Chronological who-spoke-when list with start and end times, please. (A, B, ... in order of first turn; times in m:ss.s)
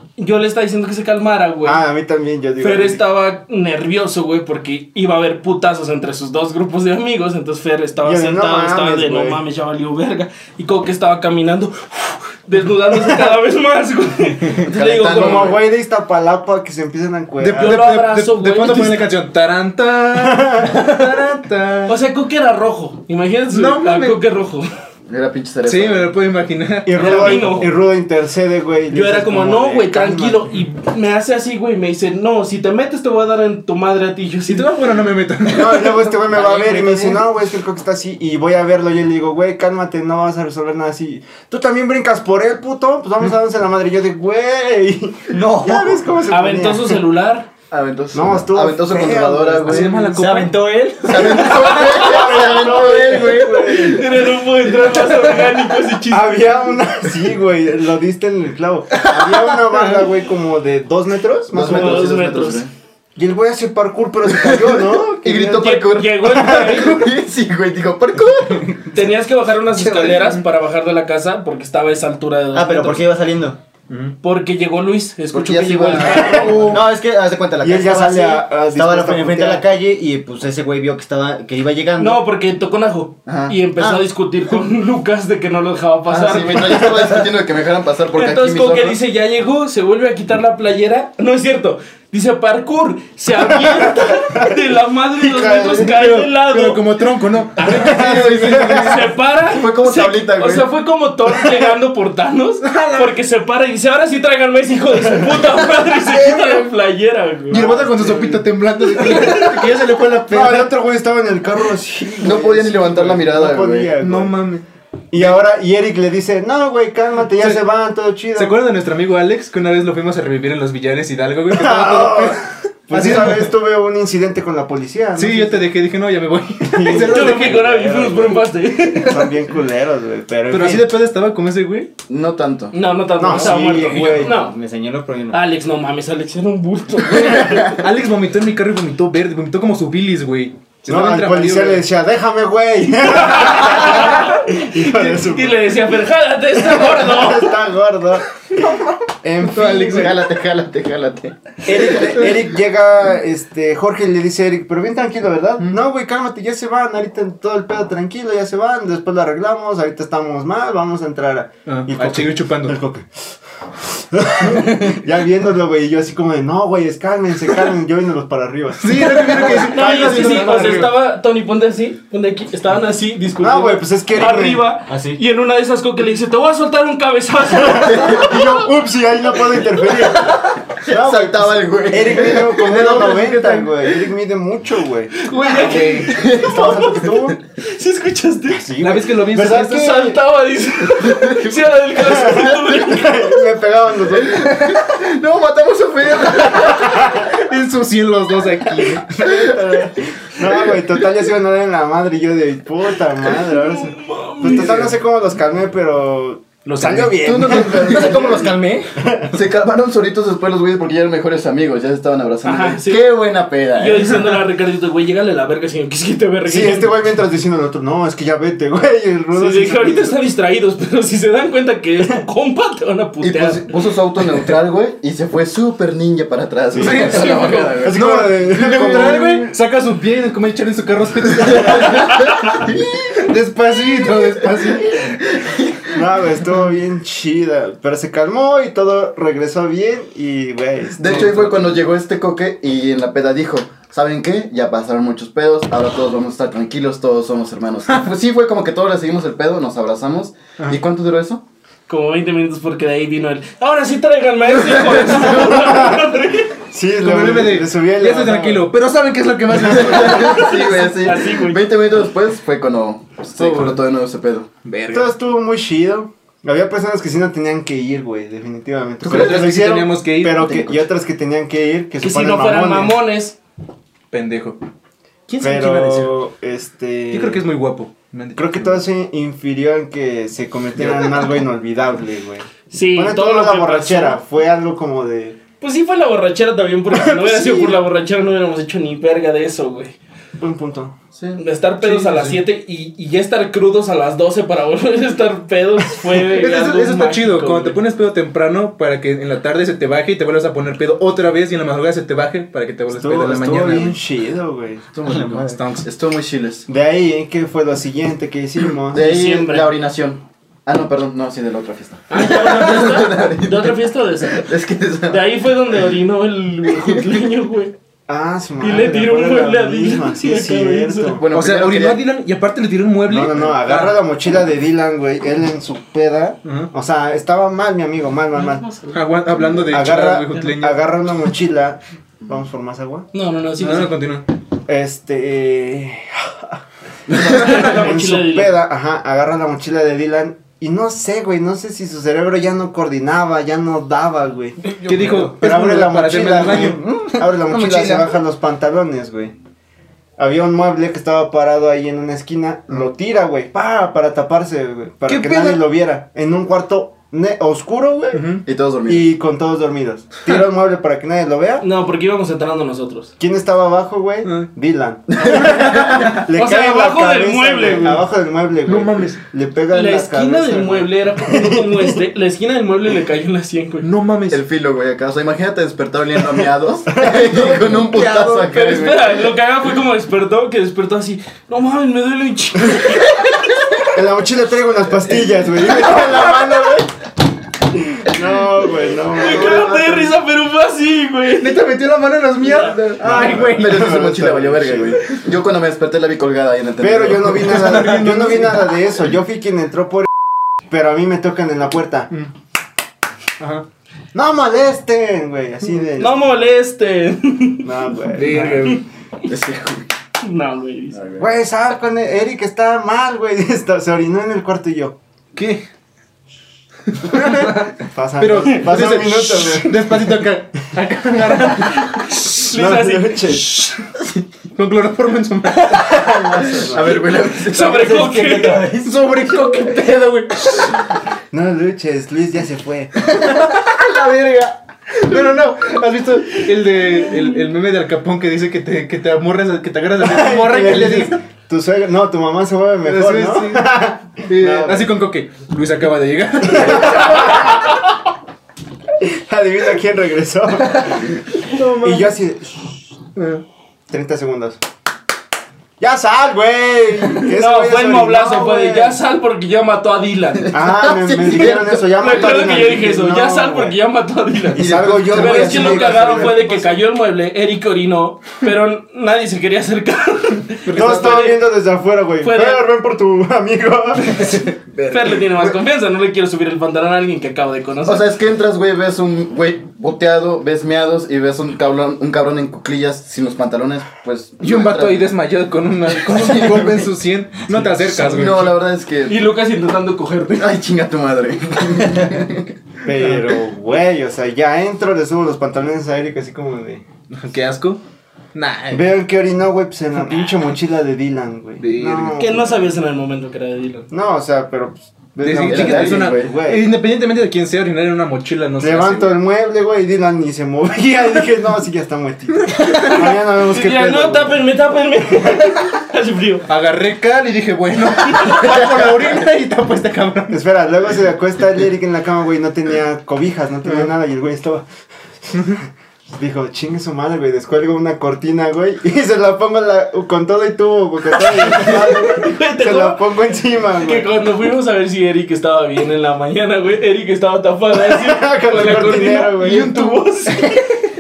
0:00.2-0:01.8 A
0:01.6-0:03.0 B
0:02.6-0:15.6 A
0:08.0-0:09.4 B
0:13.0-0:13.3 B
0:14.6-0:15.6 C
0:15.1-0:17.9 B
0:17.4-0:22.0 D
0:17.6-0:19.1 A
0:20.2-0:20.8 B
0:21.9-0:24.7 A
0:23.5-0:24.2 D
0:25.1-0:26.1 C
0:25.6-0:27.6 D
0:26.8-0:30.5 B
0:27.0-0:27.7 A
0:28.9-0:34.7 A
0:34.5-0:36.4 D
0:35.5-0:47.0 B
0:45.3-0:46.0 E
0:46.3-0:47.5 A
0:47.7-0:49.9 C
0:48.1-0:50.1 B
0:49.7-0:50.8 D
0:49.9-0:52.0 E
0:51.0-0:54.0 C
0:51.7-0:52.3 A
0:51.9-0:54.2 B
0:53.6-0:56.5 A
0:56.1-1:02.1 B
0:59.0-1:00.0 D
1:01.5-1:02.7 C
1:01.6-1:02.6 A
1:03.2-1:07.0 B
1:04.3-1:08.9 C
1:05.5-1:07.1 A
1:08.9-1:13.0 A
1:09.9-1:10.4 C
1:12.5-1:13.6 E
1:13.9-1:14.2 D
1:14.2-1:16.7 A
1:15.3-1:16.8 C
1:16.1-1:16.8 B
1:16.6-1:22.2 E
1:17.6-1:19.6 B
1:22.0-1:27.0 A
1:23.3-1:23.6 C
1:26.1-1:29.0 C
1:28.1-1:36.9 A
1:33.5-1:34.5 B
1:35.2-1:35.9 B
1:35.8-1:39.1 D
1:37.6-1:47.7 A
1:37.7-1:38.9 B
1:37.9-1:40.7 C
1:42.6-1:43.2 D
1:46.1-1:46.6 D
1:47.5-1:50.7 D
1:47.5-1:48.4 B
1:49.0-1:49.4 B
1:49.0-1:49.5 A
1:50.3-1:54.4 B
1:52.2-1:54.0 C
1:54.0-1:54.6 D
1:55.1-1:58.6 B
1:57.4-1:57.6 D
1:58.3-2:03.5 D
2:01.5-2:05.6 B
2:05.2-2:07.8 D
2:06.7-2:10.9 B
2:06.9-2:09.3 A
2:10.5-2:11.9 D
2:12.1-2:12.8 C
2:12.7-2:14.6 A
2:13.2-2:14.3 B
2:13.5-2:15.4 E
2:15.3-2:17.6 A
2:17.2-2:17.7 C
2:17.7-2:21.8 D
2:20.9-2:25.8 B
2:23.1-2:27.6 A
2:26.6-2:30.2 B
2:29.4-2:30.1 D
2:29.9-2:32.2 C
2:31.6-2:43.3 B
2:41.7-2:42.8 D
2:43.8-2:51.0 B
2:48.8-2:51.0 D
2:49.6-2:58.6 A
2:53.4-2:54.6 B
2:54.9-2:55.2 E
2:57.6-3:05.6 B
3:00.9-3:03.4 C
3:02.7-3:03.3 D
3:05.2-3:08.7 A
3:05.5-3:06.1 D
3:06.0-3:07.3 C
3:06.4-3:07.4 B
3:08.5-3:10.0 B
3:08.8-3:10.2 D
3:09.4-3:13.4 A
3:10.9-3:11.7 C
3:12.0-3:14.6 B
3:12.3-3:12.8 C
3:14.2-3:17.1 C
3:16.6-3:17.3 B
3:16.9-3:19.3 D
3:19.2-3:28.4 B
3:23.5-3:24.9 A
3:26.7-3:27.2 D
3:27.1-3:28.5 C
3:27.8-3:29.0 E
3:29.0-3:29.3 B
3:29.3-3:34.4 C
3:32.4-3:33.1 A
3:33.8-3:36.9 A
3:36.4-3:40.2 B
3:39.3-3:43.7 A
3:43.2-3:49.5 C
3:46.7-3:47.2 B
3:46.8-3:55.2 D
3:47.8-3:49.4 B
3:51.4-3:53.3 C
3:54.0-3:56.0 C
3:55.9-4:01.2 B
4:01.0-4:11.4 C
4:01.0-4:01.7 D
4:11.9-4:16.5 A
4:14.5-4:15.8 C
4:15.5-4:16.2 B
4:16.7-4:18.7 B
4:17.0-4:20.7 D
4:19.6-4:24.5 C
4:20.0-4:21.6 A
4:23.2-4:23.8 D
4:24.6-4:25.1 D
4:24.9-4:33.0 B
4:29.0-4:30.5 D
4:29.1-4:29.4 C
4:30.4-4:30.8 C
4:32.0-4:33.4 A
4:34.1-4:34.6 D
4:35.3-4:36.1 D
4:35.4-4:37.5 B
4:37.1-4:38.8 D
4:38.4-4:45.4 B
4:40.8-4:41.2 D
4:42.7-4:44.2 A
4:45.6-4:50.0 A
4:47.1-4:47.7 D
4:50.4-4:51.0 B
4:51.2-4:51.4 C
4:51.4-4:57.8 A
4:51.8-4:52.4 D
4:56.3-5:04.0 D
5:02.9-5:04.8 B
5:05.0-5:06.7 C
5:05.0-5:05.9 D
5:05.0-5:05.6 E
5:06.7-5:09.1 B
5:08.9-5:15.3 C
5:08.9-5:09.7 A
5:12.1-5:14.5 A
5:15.1-5:17.7 A
5:16.7-5:17.2 C
5:18.1-5:21.2 B
5:18.6-5:21.2 A
5:21.2-5:22.1 C
5:21.3-5:24.0 D
5:23.1-5:28.6 B
5:26.4-5:26.7 D
5:28.4-5:29.0 A
5:28.9-5:30.8 D
5:29.7-5:33.1 B
5:33.1-5:34.0 A
5:33.6-5:34.3 D
5:34.7-5:36.6 B
5:37.1-5:37.4 C
5:37.2-5:38.6 A
5:37.2-5:49.3 B
5:44.8-5:48.2 D
5:50.2-6:01.6 B
5:55.1-5:55.6 D
5:58.1-5:58.4 D
5:58.5-5:59.1 C
6:01.6-6:03.1 A
6:03.2-6:12.0 B
6:04.2-6:04.5 D
6:05.1-6:06.2 C
6:05.2-6:06.2 D
6:06.3-6:08.0 A
6:08.6-6:09.2 D
6:09.7-6:13.9 A
6:13.8-6:14.4 D
6:14.3-6:19.3 C
6:16.9-6:17.6 B
6:17.6-6:18.5 E
6:18.5-6:23.7 A
6:23.9-6:26.9 B
6:27.9-6:30.1 B
6:29.1-6:31.6 A
6:31.4-6:34.0 D
6:32.5-6:32.8 A
6:33.0-6:35.0 B
6:33.0-6:37.7 C
6:36.8-6:40.1 B
6:37.4-6:38.7 D
6:40.7-6:42.1 B
6:43.4-6:43.6 D
6:44.1-6:46.3 B
6:46.0-6:47.7 A
6:47.6-6:48.8 B
6:48.1-6:48.8 D
6:49.3-6:49.9 C
6:50.2-6:51.0 A
6:50.9-6:51.3 C
6:51.2-6:55.0 B
6:55.4-6:55.7 D
6:56.9-7:02.2 D
6:57.2-7:00.1 B
7:01.8-7:03.8 A
7:02.5-7:03.5 B
7:04.6-7:06.2 D
7:05.7-7:07.0 B
7:06.6-7:08.0 C
7:07.2-7:08.7 A
7:07.6-7:09.0 E
7:08.8-7:10.8 D
7:11.3-7:12.9 B
7:13.0-7:21.2 D
7:20.0-7:24.9 B
7:22.8-7:27.6 D
7:26.5-7:27.7 B
7:29.0-7:31.2 B
7:31.4-7:32.1 D
7:31.8-7:32.7 B
7:33.2-7:33.4 D
7:33.9-7:34.6 B
7:35.8-7:39.0 B
7:37.3-7:40.6 A
7:40.5-7:42.5 C
7:40.5-7:43.8 B
7:41.4-7:51.4 A
7:44.5-7:46.3 C
7:44.6-7:46.7 B
7:50.7-7:51.0 D
7:50.7-7:54.4 B
7:52.2-7:52.6 A
7:54.2-7:55.3 D
7:54.9-7:58.1 A
7:57.9-8:05.1 C
8:04.4-8:08.5 D
8:06.0-8:06.9 C
8:07.8-8:09.2 C
8:09.1-8:10.6 A
8:10.4-8:12.5 C
8:12.8-8:16.8 B
8:17.1-8:17.8 D
8:18.4-8:18.9 D
8:18.7-8:22.6 B
8:20.1-8:20.4 D
8:21.6-8:22.2 D
8:22.2-8:23.9 A
8:23.9-8:26.6 B
8:25.2-8:29.2 D
8:25.4-8:26.4 C
8:28.6-8:34.4 B
8:32.5-8:33.0 D
8:32.7-8:36.5 A
8:36.5-8:40.4 D
8:40.3-8:44.7 B
8:45.5-8:54.1 B
8:51.3-8:53.1 A
8:53.8-9:00.5 A
8:57.7-8:59.7 B
8:58.5-9:00.6 D